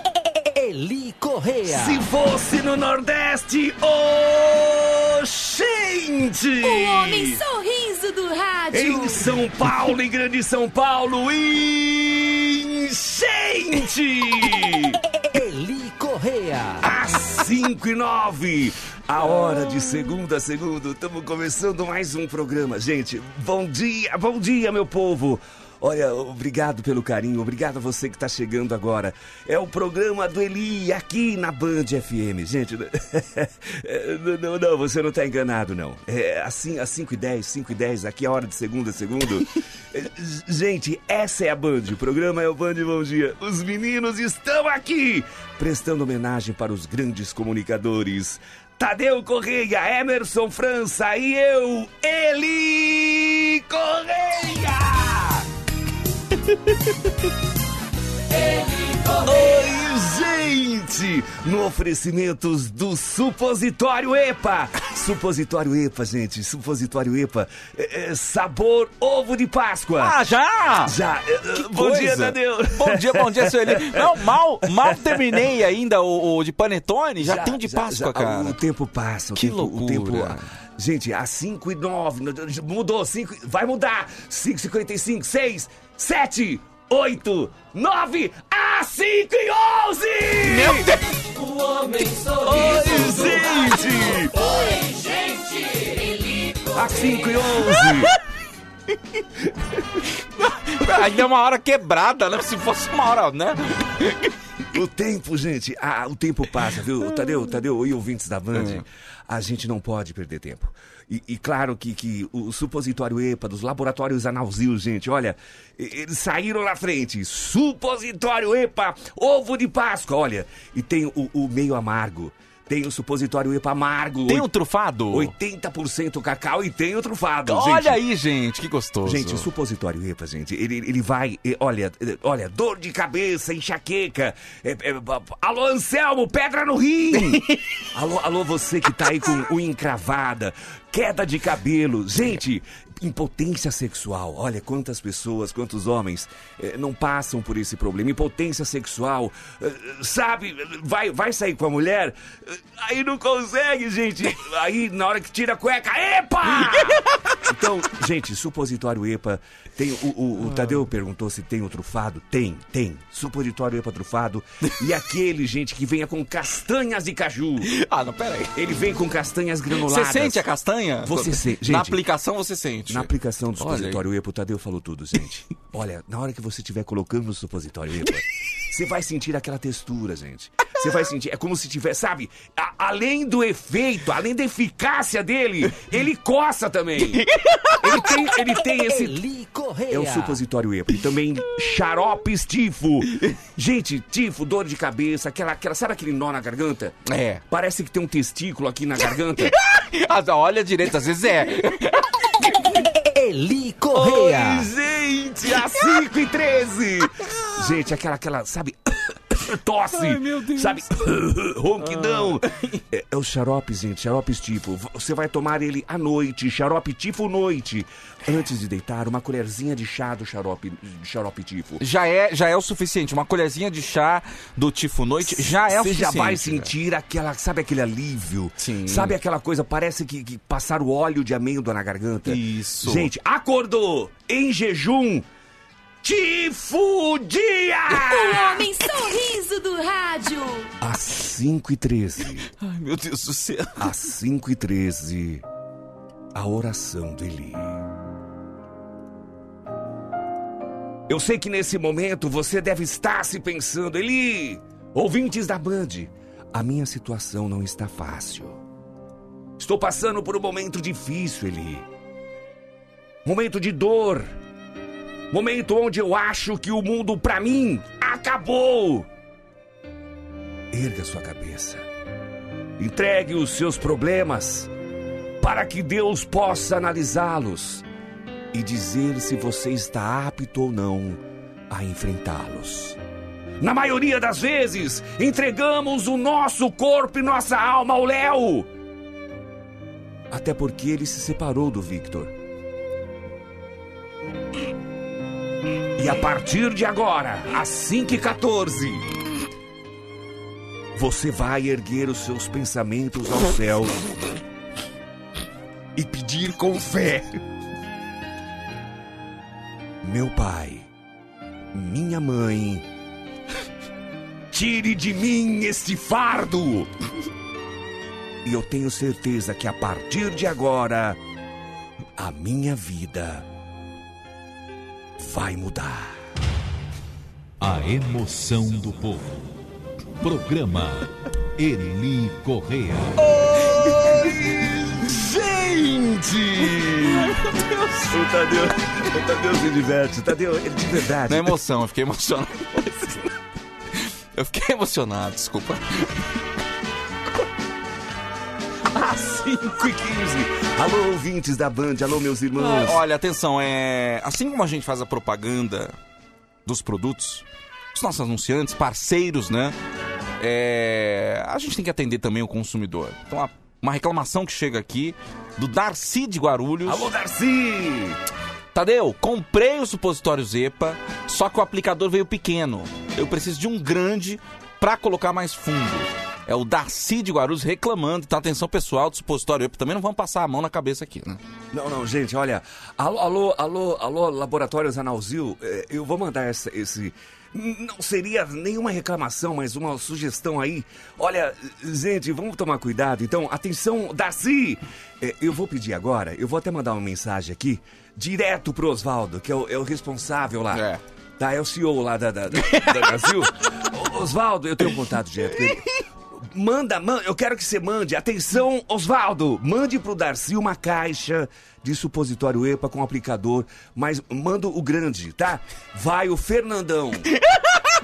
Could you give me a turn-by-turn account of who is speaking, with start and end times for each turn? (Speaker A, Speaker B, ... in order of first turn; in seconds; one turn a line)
Speaker A: 0.6-2.0
Speaker B: 1.7-7.4
Speaker C: 6.6-9.3
Speaker B: 8.7-15.0
Speaker A: 15.3-16.9
Speaker B: 16.8-55.5
Speaker B: 58.9-70.2
Speaker D: 70.0-71.0
Speaker B: 70.8-75.4
Speaker D: 71.5-78.6
Speaker B: 77.2-90.9
Speaker D: 79.4-80.5
Speaker D: 90.4-91.0
Speaker B: 92.4-94.4
Speaker D: 93.1-93.4
Speaker B: 96.7-98.1
Speaker D: 100.4-104.3
Speaker B: 104.7-124.5
Speaker D: 108.5-108.8
Speaker D: 124.3-125.3
Speaker B: 125.1-128.0
Speaker D: 127.5-129.5
Speaker B: 129.1-167.7
Speaker D: 137.2-137.6
Speaker D: 160.5-160.8
Speaker D: 167.6-168.6
Speaker B: 168.5-170.5
Speaker D: 169.8-174.0
Speaker B: 171.0-172.0
Speaker B: 172.9-187.3
Speaker D: 187.0-188.0
Speaker B: 187.8-189.2
Speaker A: 188.9-190.4
Speaker B: 189.9-197.0
Speaker D: 197.1-197.4
Speaker B: 197.5-199.6
Speaker D: 199.5-202.1
Speaker A: 203.0-204.7
Speaker B: 203.9-221.8
Speaker D: 209.9-210.9
Speaker D: 211.8-212.8
Speaker D: 221.8-226.7
Speaker B: 225.2-235.3
Speaker D: 228.6-229.2
Speaker D: 232.3-233.1
Speaker B: 236.0-238.7
Speaker C: 237.9-240.7
Speaker B: 240.8-242.5
Speaker D: 242.6-243.9
Speaker B: 243.8-245.4
Speaker B: 246.3-247.8
Speaker B: 251.1-258.6
Speaker B: 259.6-261.9
Speaker B: 263.2-264.4
Speaker B: 265.3-269.1
Speaker B: 270.7-271.9
Speaker B: 272.8-274.7
Speaker B: 275.4-277.9
Speaker B: 278.5-283.0
Speaker B: 283.6-288.7
Speaker B: 290.3-292.4
Speaker B: 296.0-299.1
Speaker B: 300.9-304.1
Speaker B: 305.9-307.4
Speaker B: 310.0-310.9
Speaker B: 311.7-312.9
Speaker B: 314.5-316.9
Speaker B: 318.4-321.2
Speaker B: 322.2-323.5
Speaker B: 325.2-326.2
Speaker E: 327.6-329.2
Speaker E: 331.7-333.0
Speaker B: 333.2-337.4
Speaker D: 333.6-334.4
Speaker D: 337.0-338.1
Speaker B: 338.1-341.6
Speaker D: 341.3-343.2
Speaker D: 344.3-346.2
Speaker D: 348.9-349.7
Speaker B: 349.6-353.0
Speaker D: 352.6-355.9
Speaker D: 356.7-359.8
Speaker D: 360.4-367.1
Speaker B: 366.9-368.2
Speaker D: 368.7-381.4
Speaker B: 381.7-400.9
Speaker D: 400.7-401.0
Speaker B: 401.4-417.3
Speaker D: 402.7-403.1